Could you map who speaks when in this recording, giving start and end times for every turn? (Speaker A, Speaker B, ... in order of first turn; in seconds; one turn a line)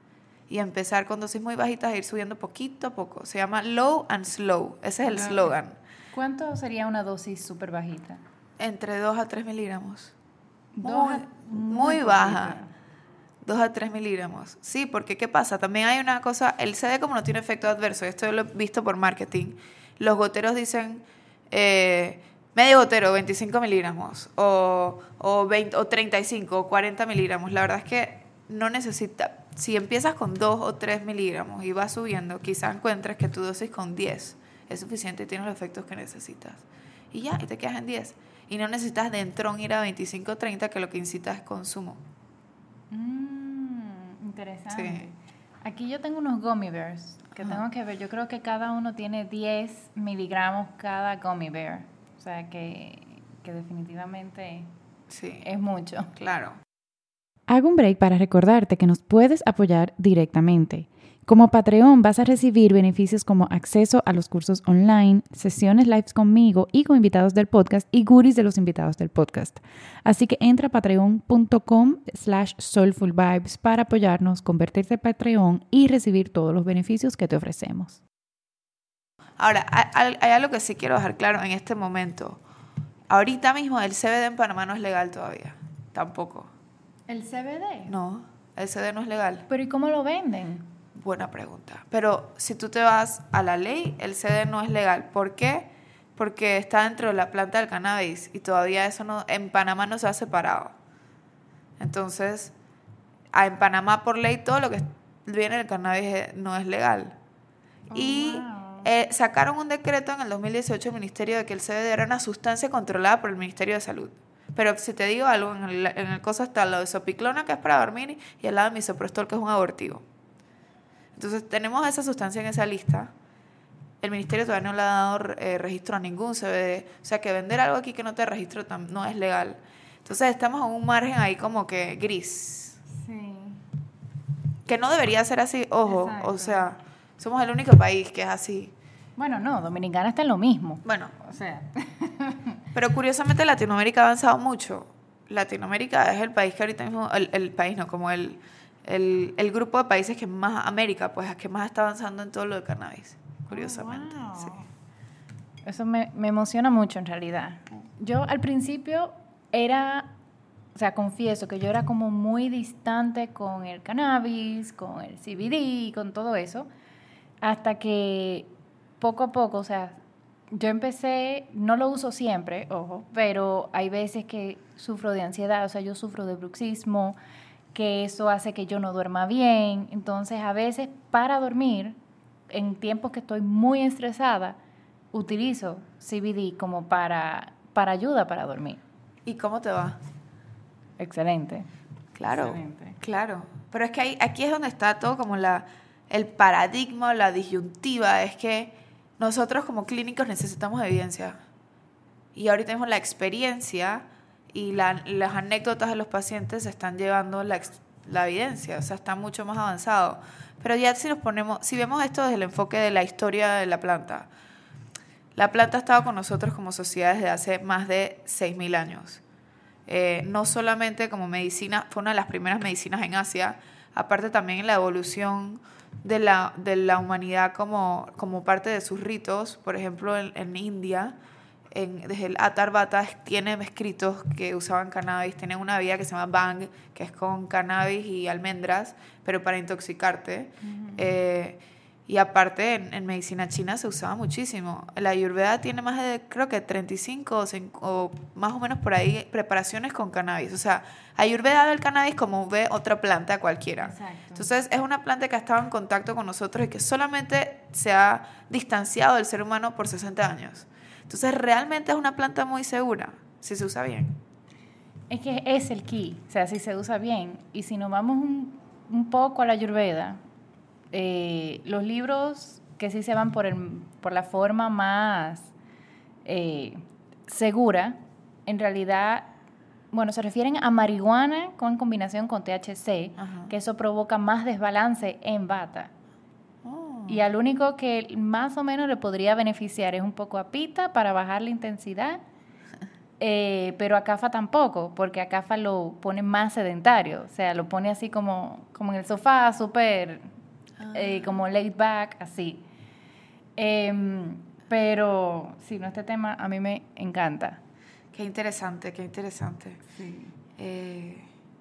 Speaker A: 0.5-5.8
Speaker B: 5.0-5.5
Speaker B: 6.1-8.2
Speaker A: 8.6-10.1
Speaker B: 10.7-12.7
Speaker A: 10.8-12.6
Speaker A: 13.4-42.0
Speaker B: 42.9-54.7
Speaker A: 44.7-45.1
Speaker A: 55.1-55.5
Speaker B: 55.4-56.1
Speaker A: 56.1-56.6
Speaker B: 57.5-78.0
Speaker A: 79.4-82.4
Speaker A: 83.1-86.5
Speaker B: 87.1-87.9
Speaker A: 87.9-89.5
Speaker B: 89.5-90.7
Speaker A: 90.9-100.7
Speaker A: 101.8-102.5
Speaker A: 103.3-107.1
Speaker B: 107.9-108.9
Speaker A: 107.9-120.0
Speaker A: 121.1-123.1
Speaker A: 124.0-132.8
Speaker B: 132.9-133.6
Speaker A: 134.7-138.7
Speaker B: 135.8-136.7
Speaker B: 139.2-142.6
Speaker A: 140.8-141.1
Speaker A: 142.7-154.6
Speaker B: 153.5-154.7
Speaker B: 155.6-160.1
Speaker B: 160.7-166.7
Speaker B: 167.4-170.0
Speaker B: 170.5-177.2
Speaker B: 177.7-182.0
Speaker B: 182.5-184.6
Speaker B: 185.1-188.8
Speaker A: 189.2-190.0
Speaker B: 191.0-191.7
Speaker A: 192.2-201.4
Speaker B: 192.3-193.0
Speaker A: 202.3-214.3
Speaker A: 215.3-219.2
Speaker A: 219.9-231.1
Speaker A: 231.7-264.2
Speaker B: 240.6-241.1
Speaker B: 253.8-254.5
Speaker B: 265.1-270.2
Speaker B: 270.9-275.5
Speaker B: 276.2-279.3
Speaker B: 279.9-285.9
Speaker A: 283.2-283.5
Speaker A: 286.6-287.2
Speaker B: 287.1-292.2
Speaker B: 293.2-300.3
Speaker A: 300.8-301.4
Speaker B: 300.9-302.6
Speaker B: 303.6-307.6
Speaker A: 308.1-309.8
Speaker B: 309.9-310.3
Speaker A: 310.6-311.3